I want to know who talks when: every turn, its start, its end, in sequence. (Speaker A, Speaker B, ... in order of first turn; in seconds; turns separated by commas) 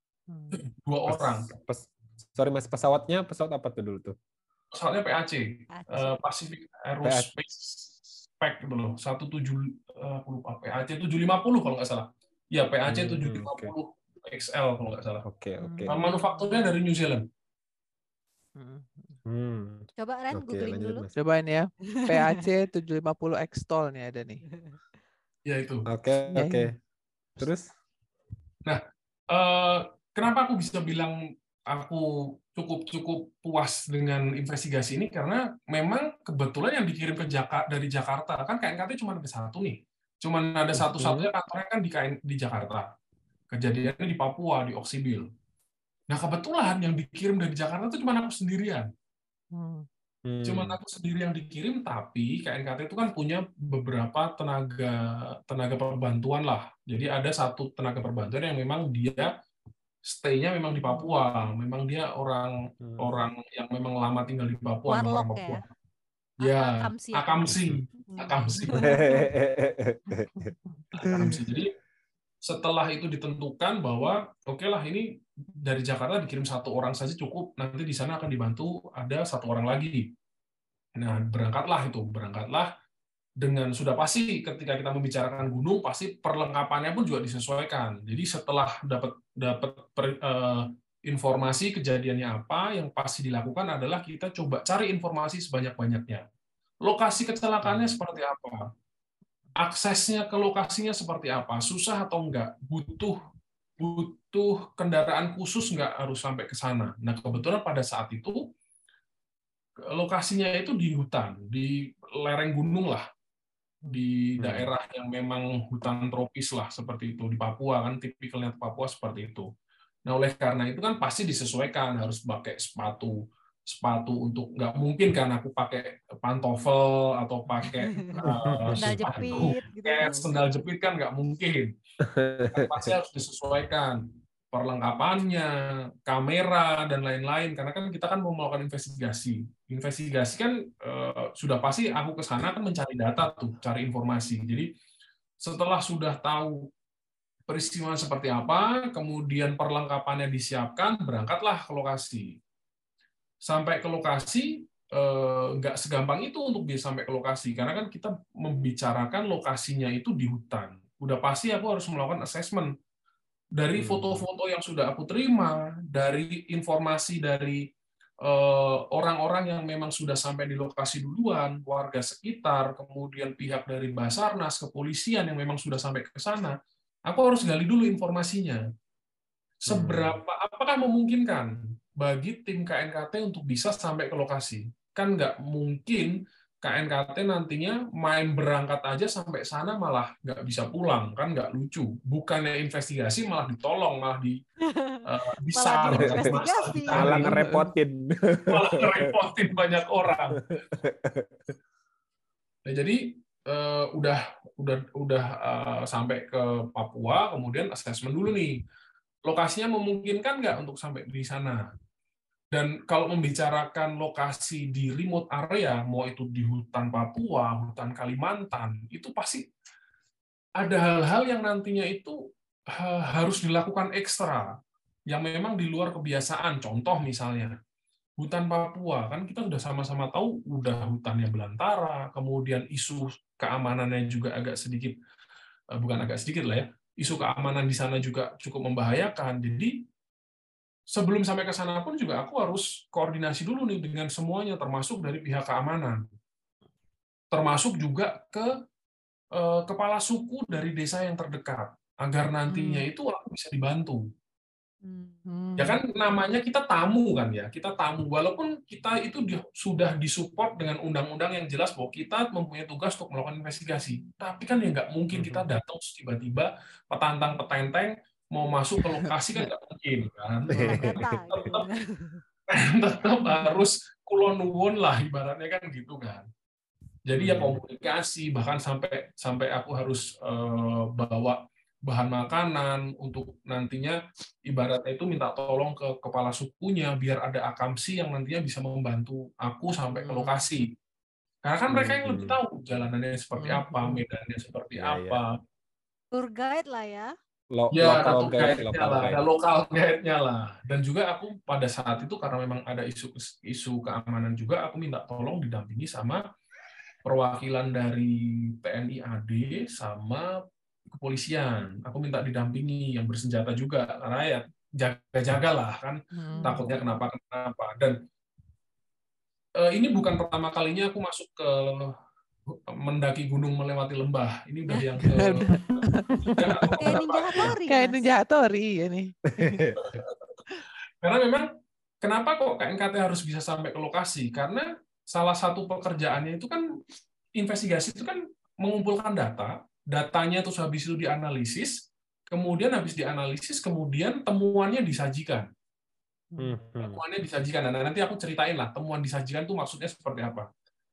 Speaker A: 0.3-0.6, Speaker B: 0.6-1.5, Speaker C: 1.1-4.2, Speaker B: 4.7-15.2, Speaker D: 5.7-6.2, Speaker C: 7.0-7.3, Speaker C: 12.9-13.7, Speaker C: 15.2-16.0, Speaker A: 15.6-16.4, Speaker B: 15.9-17.3, Speaker A: 18.6-19.2, Speaker C: 19.2-21.2, Speaker D: 20.0-21.1, Speaker A: 21.1-24.4, Speaker B: 25.4-25.9, Speaker C: 25.9-26.7, Speaker A: 26.2-26.7, Speaker C: 27.4-27.7, Speaker B: 28.6-31.1, Speaker B: 31.7-42.9, Speaker C: 40.7-41.3, Speaker B: 43.5-45.2, Speaker B: 46.1-48.9, Speaker A: 49.5-49.9, Speaker C: 50.2-50.8, Speaker B: 50.4-59.3, Speaker B: 60.0-65.6, Speaker C: 62.8-63.3, Speaker D: 64.9-65.6, Speaker B: 66.4-68.8, Speaker D: 66.4-67.5, Speaker C: 67.5-67.8, Speaker D: 68.0-69.2, Speaker C: 68.7-71.4, Speaker A: 70.3-71.2, Speaker B: 71.0-71.7, Speaker B: 72.4-75.0, Speaker B: 75.6-80.1, Speaker B: 81.0-82.7, Speaker B: 83.4-96.2, Speaker B: 96.8-98.6, Speaker C: 97.6-97.9, Speaker B: 99.6-103.2, Speaker B: 103.8-108.5, Speaker B: 109.9-113.0, Speaker B: 113.9-119.5, Speaker C: 114.4-114.7, Speaker B: 120.0-131.7, Speaker A: 127.5-128.2, Speaker C: 128.2-129.5, Speaker D: 128.8-130.4, Speaker C: 132.0-132.9, Speaker B: 132.5-134.0, Speaker B: 134.5-135.5, Speaker B: 136.1-144.7, Speaker B: 145.4-146.6, Speaker B: 147.5-152.3, Speaker B: 153.4-162.7, Speaker B: 163.6-167.7, Speaker C: 163.8-164.3, Speaker B: 168.2-176.5, Speaker B: 177.1-178.6, Speaker B: 179.6-194.4, Speaker C: 179.7-180.2, Speaker D: 194.7-197.1, Speaker B: 195.0-197.4, Speaker C: 195.9-199.1, Speaker A: 197.0-197.7, Speaker B: 198.5-200.4, Speaker C: 200.4-201.4, Speaker B: 202.7-208.6, Speaker B: 209.2-211.7, Speaker B: 212.5-219.4, Speaker B: 220.6-222.1, Speaker B: 222.7-224.5, Speaker B: 225.1-227.5, Speaker B: 228.2-234.9, Speaker B: 235.7-239.7, Speaker B: 240.9-246.0, Speaker B: 247.3-248.5, Speaker B: 249.4-254.0, Speaker D: 254.8-255.2, Speaker A: 255.3-255.8, Speaker B: 255.6-271.6, Speaker C: 265.1-265.5, Speaker A: 268.8-269.5, Speaker C: 270.5-271.5, Speaker D: 270.6-272.2, Speaker B: 272.5-276.2, Speaker B: 277.1-284.0, Speaker C: 277.2-277.6, Speaker B: 284.5-290.7, Speaker A: 289.9-290.3, Speaker B: 291.4-295.4, Speaker C: 291.7-292.4, Speaker A: 293.4-294.0, Speaker C: 294.7-295.2, Speaker D: 296.1-297.1, Speaker C: 297.5-299.2, Speaker B: 297.7-306.2, Speaker B: 307.0-310.3, Speaker B: 310.9-317.9, Speaker A: 316.1-316.7, Speaker D: 316.3-316.7, Speaker B: 319.6-321.9, Speaker B: 322.5-327.6, Speaker D: 324.7-325.0, Speaker A: 325.0-329.7, Speaker D: 326.7-328.0, Speaker C: 329.4-329.8, Speaker B: 329.8-330.4, Speaker B: 331.0-331.5, Speaker B: 332.0-336.6, Speaker B: 337.4-341.7, Speaker B: 342.3-345.5, Speaker A: 346.3-346.6, Speaker C: 346.4-347.0, Speaker B: 346.8-350.5